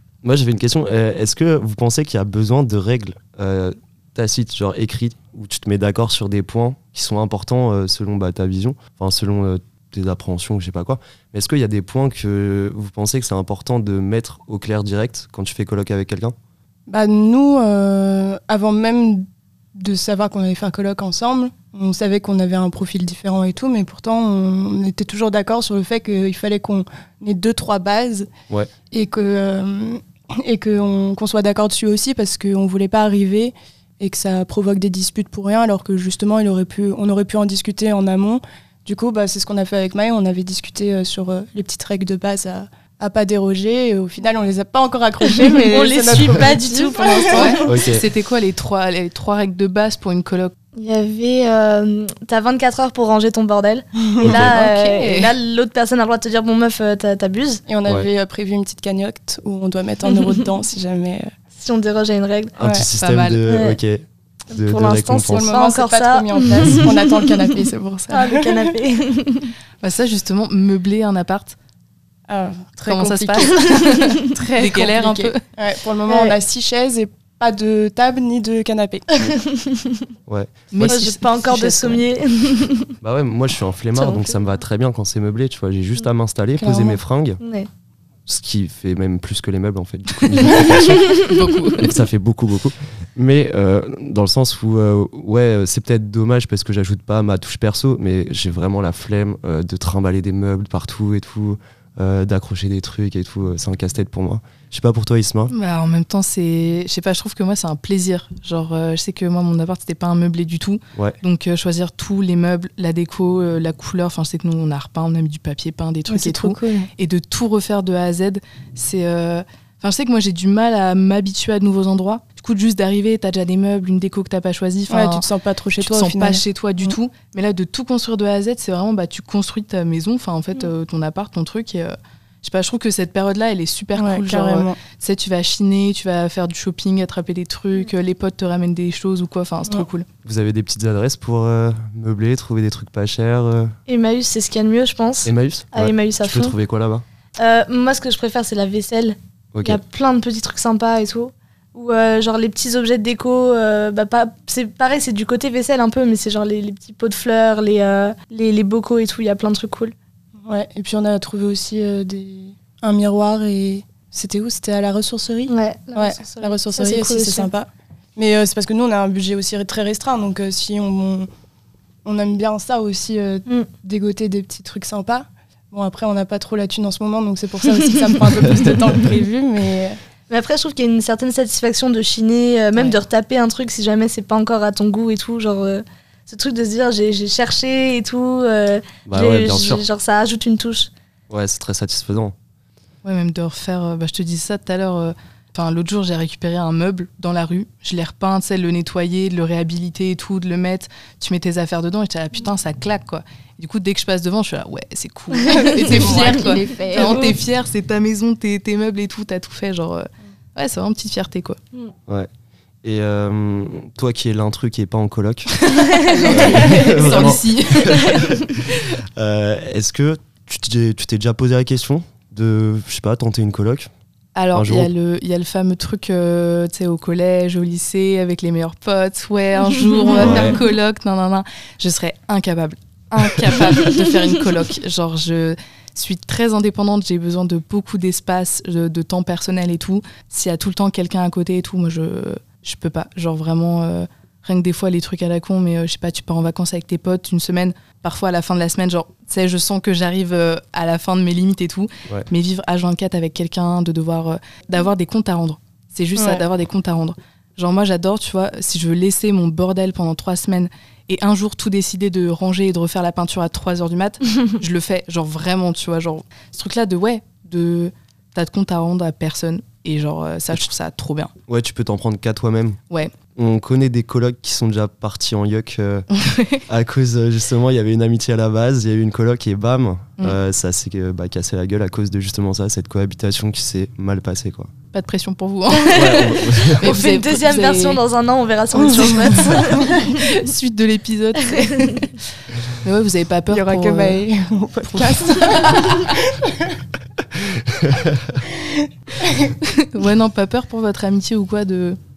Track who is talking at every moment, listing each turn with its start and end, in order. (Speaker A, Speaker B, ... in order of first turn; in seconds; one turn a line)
Speaker A: 0.2-16.4
Speaker B: 16.9-28.3
Speaker B: 28.9-47.8
Speaker C: 45.5-47.7
Speaker D: 47.3-50.5
Speaker A: 47.7-48.0
Speaker C: 50.8-57.6
Speaker B: 54.1-54.4
Speaker D: 54.2-55.3
Speaker B: 57.7-61.3
Speaker C: 61.6-62.5
Speaker A: 62.6-65.5
Speaker B: 62.6-62.9
Speaker D: 63.0-63.4
Speaker C: 63.5-63.8
Speaker C: 64.5-67.1
Speaker B: 65.3-68.8
Speaker C: 68.1-69.5
Speaker D: 69.8-71.6
Speaker B: 72.3-79.1
Speaker D: 72.9-75.4
Speaker C: 73.6-74.1
Speaker C: 76.1-76.4
Speaker C: 79.2-80.1
Speaker A: 80.3-81.0
Speaker D: 80.7-82.0
Speaker C: 80.9-82.9
Speaker A: 83.0-87.4
Speaker C: 84.0-84.4
Speaker B: 86.6-87.0
Speaker C: 87.4-87.7
Speaker A: 88.3-91.2
Speaker C: 90.9-91.3
Speaker D: 91.2-91.9
Speaker A: 91.8-105.5
Speaker D: 105.5-125.2
Speaker B: 116.1-116.9
Speaker B: 124.9-127.0
Speaker D: 125.8-140.1
Speaker B: 133.9-134.8
Speaker A: 140.2-143.8
Speaker C: 143.9-146.6
Speaker A: 145.2-147.0
Speaker C: 147.4-159.9
Speaker A: 149.6-149.8
Speaker B: 160.4-171.3
Speaker C: 165.5-167.5
Speaker B: 172.1-180.0
Speaker C: 178.0-178.8
Speaker C: 180.3-190.9
Speaker A: 189.1-189.8
Speaker A: 191.3-192.3
Speaker D: 193.0-211.6
Speaker B: 205.5-207.3
Speaker C: 205.5-207.3
Speaker A: 212.8-215.6
Speaker D: 215.6-218.4
Speaker C: 216.2-217.2
Speaker A: 216.2-218.5
Speaker A: 219.2-223.9
Speaker D: 224.3-271.3
Speaker A: 224.5-224.9
Speaker C: 230.1-230.5
Speaker A: 230.2-230.6
Speaker B: 256.2-256.4
Speaker A: 271.5-272.8
Speaker A: 273.4-276.1
Speaker D: 276.2-276.6
Speaker A: 276.6-284.7
Speaker D: 284.9-286.2
Speaker C: 285.7-290.3
Speaker A: 285.9-286.9
Speaker D: 286.8-288.0
Speaker B: 288.8-290.0
Speaker D: 289.3-292.2
Speaker C: 291.6-292.0
Speaker D: 292.8-294.2
Speaker B: 293.5-296.8
Speaker D: 294.9-296.1
Speaker A: 297.6-298.4
Speaker B: 298.5-299.6
Speaker D: 299.6-302.0